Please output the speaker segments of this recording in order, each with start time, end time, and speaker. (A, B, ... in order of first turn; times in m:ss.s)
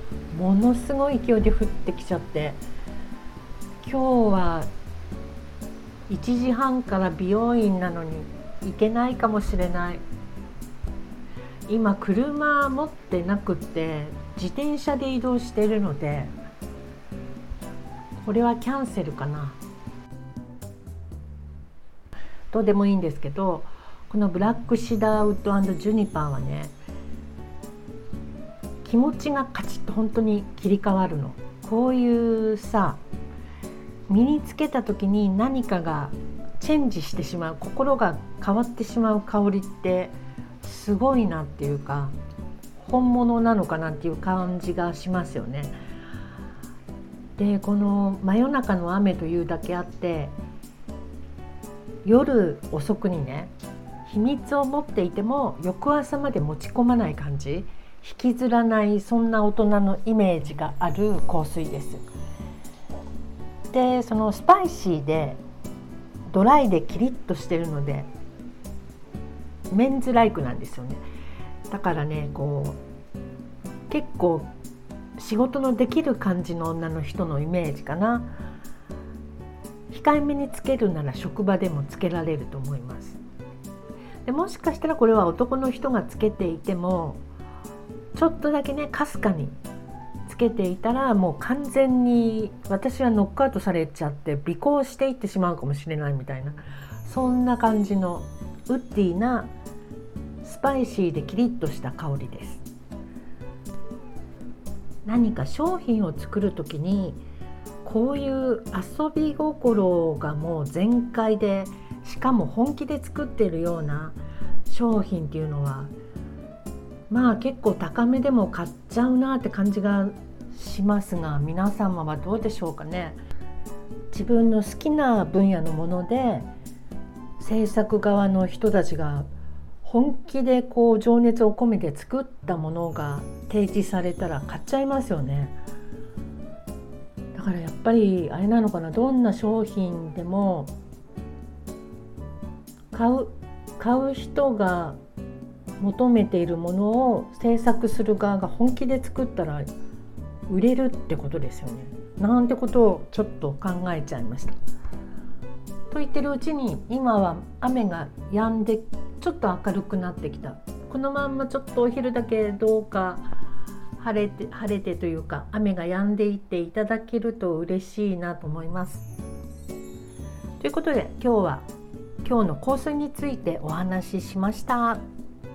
0:00.3-0:02.6 A
0:03.8-0:04.7 A
0:06.1-0:10.0 A
0:11.7-0:16.3 A
0:18.2-0:19.6 A
0:22.5-0:26.7 A
0:28.8-0:33.0 A
0:34.1-0:42.1 A
0:42.8-0:45.7 A
0:47.4-0:50.4 A
0:52.0-0:53.5 A
0:54.0-1:02.0 A
1:03.7-1:05.4 A
1:06.3-1:08.1 A
1:09.7-1:11.0 A
1:11.7-1:12.8 A
1:13.9-1:14.5 A
1:15.2-1:18.3 A
1:19.9-1:23.2 A
1:24.2-1:27.2 A
1:28.1-1:29.6 A
1:30.2-1:39.5 A
1:40.4-1:42.6 A
1:45.0-1:47.2 A
1:47.8-1:55.9 A
1:57.1-2:03.2 A
2:04.1-2:06.5 A
2:07.4-2:09.3 A
2:09.8-2:15.6 A
2:17.3-2:20.7 A
2:22.9-2:25.0 A
2:25.8-2:29.7 A
2:30.5-2:34.6 A
2:35.9-2:43.2 A
2:44.0-2:49.1 A
2:50.6-2:51.7 A
2:52.2-2:55.0 A